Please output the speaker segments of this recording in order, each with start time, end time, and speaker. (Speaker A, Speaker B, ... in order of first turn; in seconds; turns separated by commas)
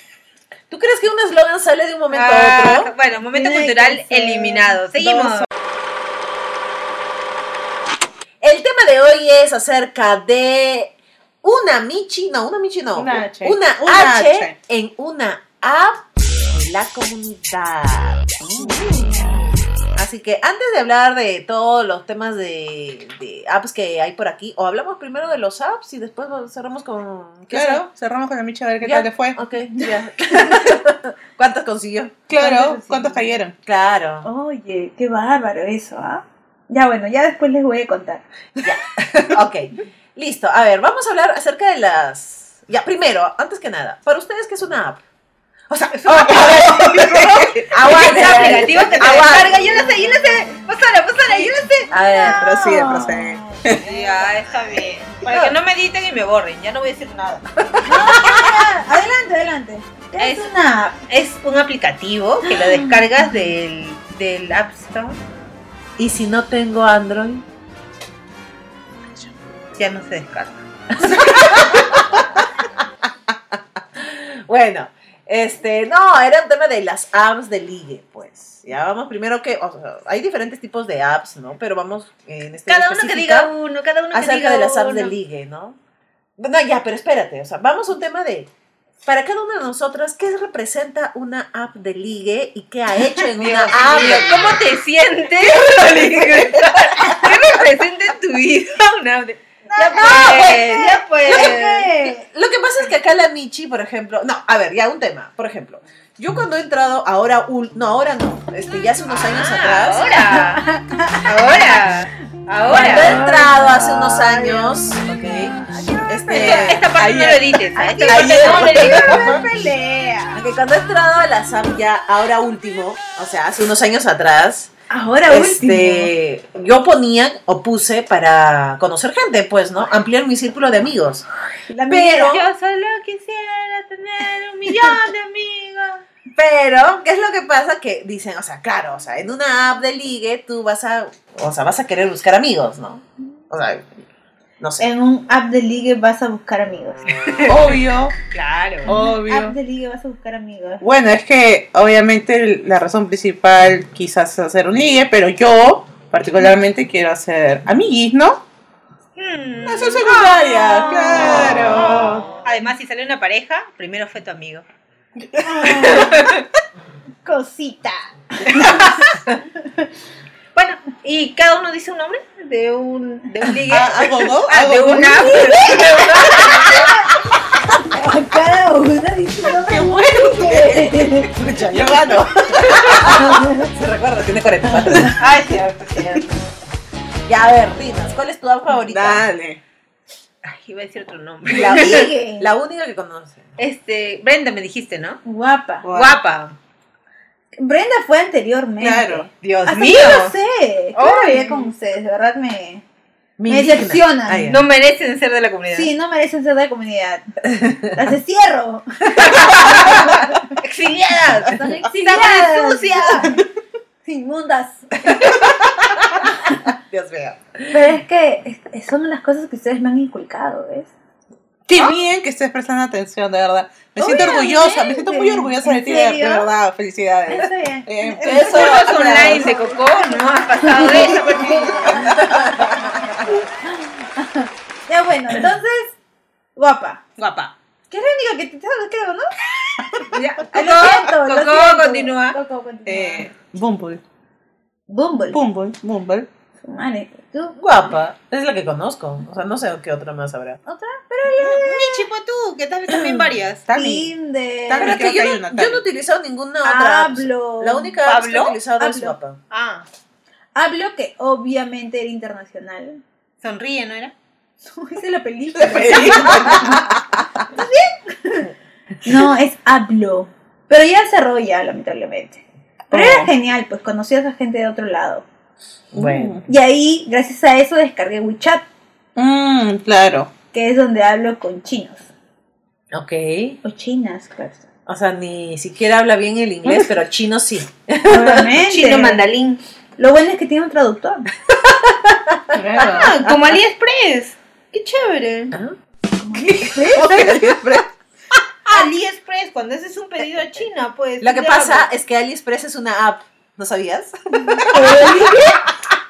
Speaker A: 0.7-2.9, Speaker B: 2.1-5.5, Speaker C: 3.3-4.8, Speaker D: 5.0-5.5, Speaker A: 8.4-19.2, Speaker D: 13.0-14.6, Speaker D: 18.4-18.8, Speaker A: 19.9-27.9, Speaker D: 27.5-29.4, Speaker A: 28.8-32.2, Speaker C: 29.8-30.7, Speaker D: 32.3-33.6, Speaker C: 32.3-33.3, Speaker A: 33.6-34.3, Speaker C: 34.2-38.2, Speaker A: 38.6-45.0, Speaker A: 45.7-49.6, Speaker B: 46.0-47.2, Speaker D: 46.1-47.6, Speaker B: 47.9-51.9, Speaker C: 48.2-50.7, Speaker D: 48.8-49.2, Speaker C: 51.2-55.5, Speaker A: 51.9-52.5, Speaker D: 52.2-53.9, Speaker B: 53.8-57.5, Speaker C: 57.8-61.0, Speaker B: 60.2-60.5, Speaker B: 61.1-65.2, Speaker C: 62.5-63.1, Speaker A: 66.0-67.4, Speaker B: 69.8-70.6, Speaker A: 71.0-72.2, Speaker A: 74.0-83.5, Speaker B: 82.7-85.2, Speaker A: 84.1-85.8, Speaker A: 86.4-88.5, Speaker A: 89.0-94.6, Speaker B: 93.4-101.9, Speaker C: 93.9-94.3, Speaker A: 95.4-97.3, Speaker C: 99.7-102.3, Speaker A: 100.0-100.6, Speaker A: 101.3-110.2, Speaker B: 109.1-110.7, Speaker C: 110.2-112.0, Speaker B: 111.3-113.3, Speaker A: 112.6-116.9, Speaker C: 112.7-116.7, Speaker D: 116.3-119.5, Speaker B: 116.3-119.4, Speaker C: 117.8-120.4, Speaker A: 120.3-124.7, Speaker C: 124.9-126.1, Speaker A: 125.3-131.3, Speaker C: 131.7-132.4, Speaker A: 131.9-132.4, Speaker B: 132.2-136.0, Speaker C: 134.7-135.0, Speaker A: 136.3-143.9, Speaker A: 144.6-144.9, Speaker C: 144.8-147.0, Speaker B: 147.3-147.8, Speaker D: 147.4-148.2, Speaker B: 148.3-148.9, Speaker D: 148.8-149.6, Speaker C: 148.9-150.8, Speaker D: 150.8-158.4, Speaker B: 159.2-164.7, Speaker D: 159.6-162.3, Speaker D: 165.2-166.0, Speaker C: 165.4-166.4, Speaker B: 165.8-166.4, Speaker C: 167.2-169.9, Speaker B: 170.6-176.9, Speaker D: 173.7-175.8, Speaker C: 175.2-181.3, Speaker D: 179.6-183.1, Speaker A: 181.4-185.2, Speaker C: 183.1-183.7, Speaker B: 185.2-186.3, Speaker A: 187.3-189.3, Speaker D: 188.9-189.6, Speaker B: 190.4-192.1, Speaker A: 191.5-193.5, Speaker C: 191.5-192.5, Speaker B: 193.6-195.2, Speaker C: 195.2-195.9, Speaker D: 195.8-196.2, Speaker B: 195.9-196.6, Speaker C: 197.6-202.8, Speaker D: 198.8-199.3, Speaker B: 199.4-200.3, Speaker B: 200.9-201.7, Speaker A: 203.4-204.6, Speaker C: 203.5-204.5, Speaker B: 204.5-205.9, Speaker C: 205.7-210.5, Speaker B: 209.2-213.3, Speaker C: 211.5-213.4, Speaker C: 214.0-215.6, Speaker A: 215.2-215.4, Speaker A: 216.7-217.8, Speaker C: 217.7-220.9, Speaker D: 221.7-229.3, Speaker C: 224.0-226.5, Speaker C: 227.3-232.7, Speaker A: 228.2-229.5, Speaker B: 228.4-232.1, Speaker D: 230.9-232.3, Speaker A: 232.2-233.2, Speaker C: 233.2-236.0, Speaker C: 236.6-237.0, Speaker B: 237.2-237.5, Speaker C: 237.9-239.3, Speaker C: 239.8-243.3, Speaker B: 240.1-242.4, Speaker D: 242.9-244.0, Speaker C: 244.9-245.4, Speaker D: 245.3-246.3, Speaker C: 246.6-247.6, Speaker A: 247.6-250.6, Speaker C: 250.7-252.1, Speaker B: 251.4-253.6, Speaker D: 252.9-254.1, Speaker C: 253.7-255.0, Speaker D: 254.7-255.8, Speaker A: 254.8-259.4, Speaker C: 256.6-258.0, Speaker B: 258.0-258.6, Speaker C: 258.8-259.2, Speaker B: 259.5-259.9, Speaker C: 260.6-263.0, Speaker B: 263.4-264.1, Speaker C: 264.7-266.9, Speaker D: 265.5-267.4, Speaker C: 267.5-268.5, Speaker C: 269.0-275.3, Speaker D: 272.9-273.3, Speaker D: 275.9-276.4, Speaker A: 275.9-276.4, Speaker C: 276.5-278.7, Speaker D: 279.2-280.3, Speaker C: 280.5-282.1, Speaker A: 282.9-283.6, Speaker C: 283.6-284.6, Speaker A: 284.9-288.6, Speaker C: 288.1-289.2, Speaker B: 288.6-289.6, Speaker C: 290.0-291.3, Speaker A: 291.6-293.3, Speaker D: 292.5-293.1, Speaker B: 292.8-295.5, Speaker C: 296.2-297.2, Speaker A: 296.5-297.8, Speaker D: 296.9-297.9, Speaker B: 298.7-301.9, Speaker A: 301.2-305.4, Speaker C: 304.4-305.6